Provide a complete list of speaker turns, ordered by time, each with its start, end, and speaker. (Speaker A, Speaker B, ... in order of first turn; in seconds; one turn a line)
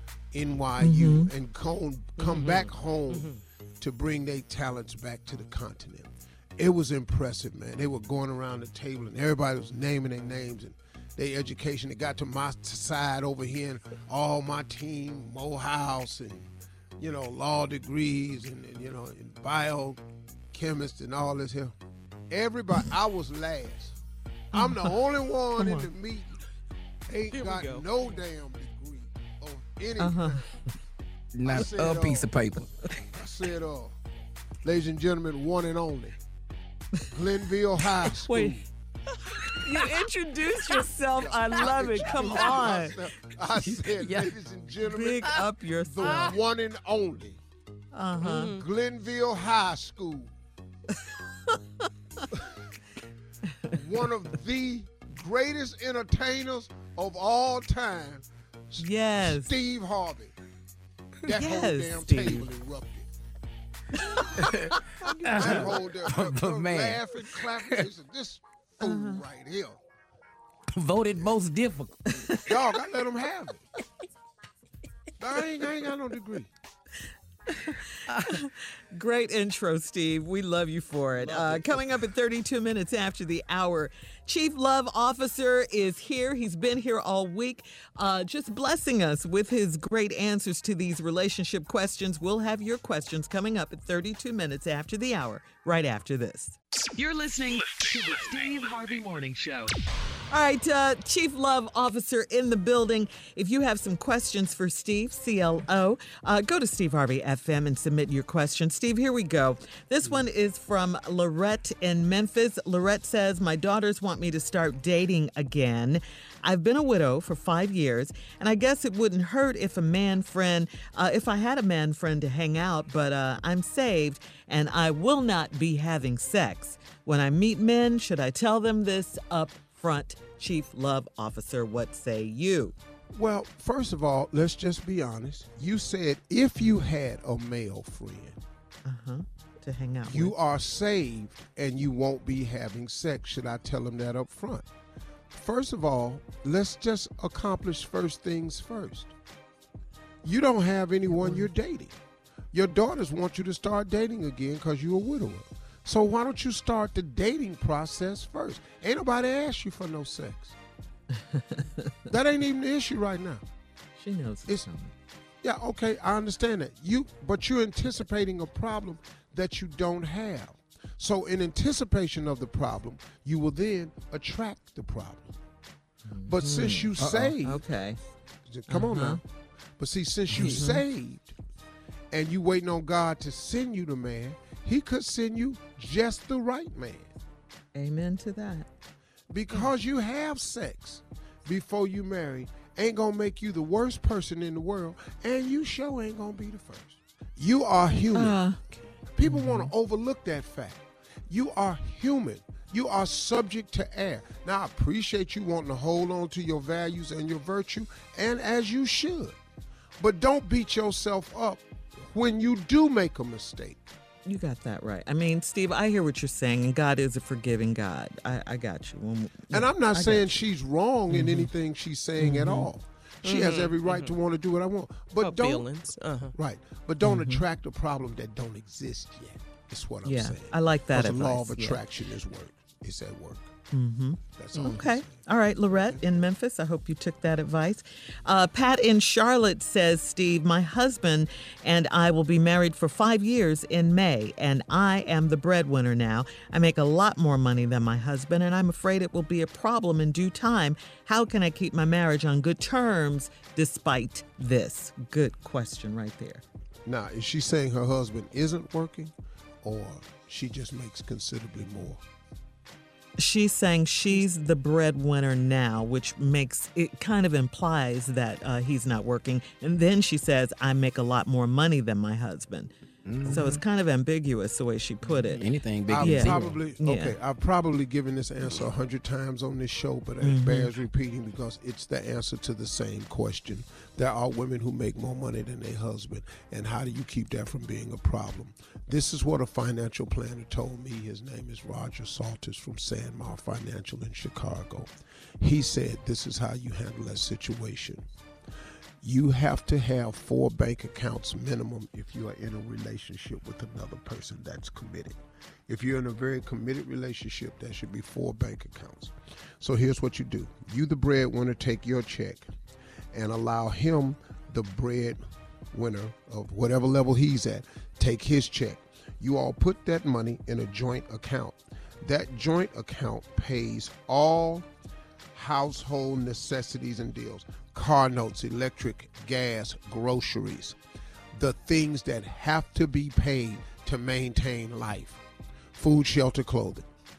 Speaker A: 0.3-20.0
Speaker B: 0.8-1.3
Speaker C: 2.2-3.4
Speaker A: 20.5-21.7
Speaker A: 22.3-24.0
Speaker A: 24.5-26.4
Speaker B: 24.5-24.9
Speaker B: 25.6-25.9
Speaker A: 27.1-30.4
Speaker C: 27.3-27.9
Speaker B: 30.0-30.4
Speaker D: 31.3-32.7
Speaker A: 31.5-32.3
Speaker A: 33.1-34.0
Speaker A: 34.6-36.2
Speaker A: 37.1-38.6
Speaker B: 38.1-38.6
Speaker B: 39.5-43.0
Speaker A: 41.1-47.4
Speaker D: 43.5-44.3
Speaker B: 44.8-46.3
Speaker B: 47.9-48.5
Speaker C: 48.2-48.6
Speaker A: 48.2-50.3
Speaker A: 53.7-60.3
Speaker B: 58.8-59.5
Speaker A: 61.2-63.1
Speaker B: 61.3-62.5
Speaker D: 64.3-67.0
Speaker A: 65.4-69.8
Speaker B: 68.8-69.2
Speaker D: 70.7-72.2
Speaker A: 72.5-73.6
Speaker A: 75.2-76.5
Speaker D: 78.1-78.3
Speaker B: 78.3-96.6
Speaker D: 81.2-81.6
Speaker E: 97.0-99.7
Speaker B: 100.3-132.7
Speaker A: 133.1-138.4
Speaker B: 138.8-140.3
Speaker A: 140.1-144.7
Speaker A: 145.3-149.1
Speaker A: 150.2-152.0
Speaker B: 151.2-151.5
Speaker A: 152.5-160.5
Speaker B: 161.3-161.9
Speaker A: 162.1-163.4
Speaker B: 164.0-164.9
Speaker A: 165.4-175.3
Speaker B: 176.1-178.0
Speaker A: 176.2-177.6
Speaker A: 178.4-179.2
Speaker B: 178.7-179.2
Speaker A: 179.8-181.3
Speaker B: 180.3-180.8
Speaker A: 182.1-187.1
Speaker B: 187.7-188.7
Speaker A: 189.3-198.4
Speaker B: 198.1-199.7
Speaker A: 199.1-209.4
Speaker A: 210.0-213.8
Speaker B: 214.2-220.4
Speaker A: 219.5-225.7
Speaker B: 221.1-221.5
Speaker B: 222.2-222.7
Speaker C: 223.2-224.1
Speaker C: 225.2-226.3
Speaker A: 226.3-233.5
Speaker B: 227.0-227.4
Speaker B: 230.0-231.8
Speaker B: 233.7-256.4
Speaker A: 234.4-236.0
Speaker A: 256.9-262.0
Speaker B: 263.2-272.7
Speaker D: 273.1-273.6
Speaker B: 273.2-275.4
Speaker D: 275.0-276.6
Speaker A: 275.9-298.1
Speaker B: 276.0-277.1
Speaker B: 280.2-280.7
Speaker A: 299.0-312.5
Speaker A: 313.1-315.2
Speaker A: 315.7-324.7
Speaker A: 325.3-330.8
Speaker A: 331.3-335.2
Speaker A: 335.8-336.9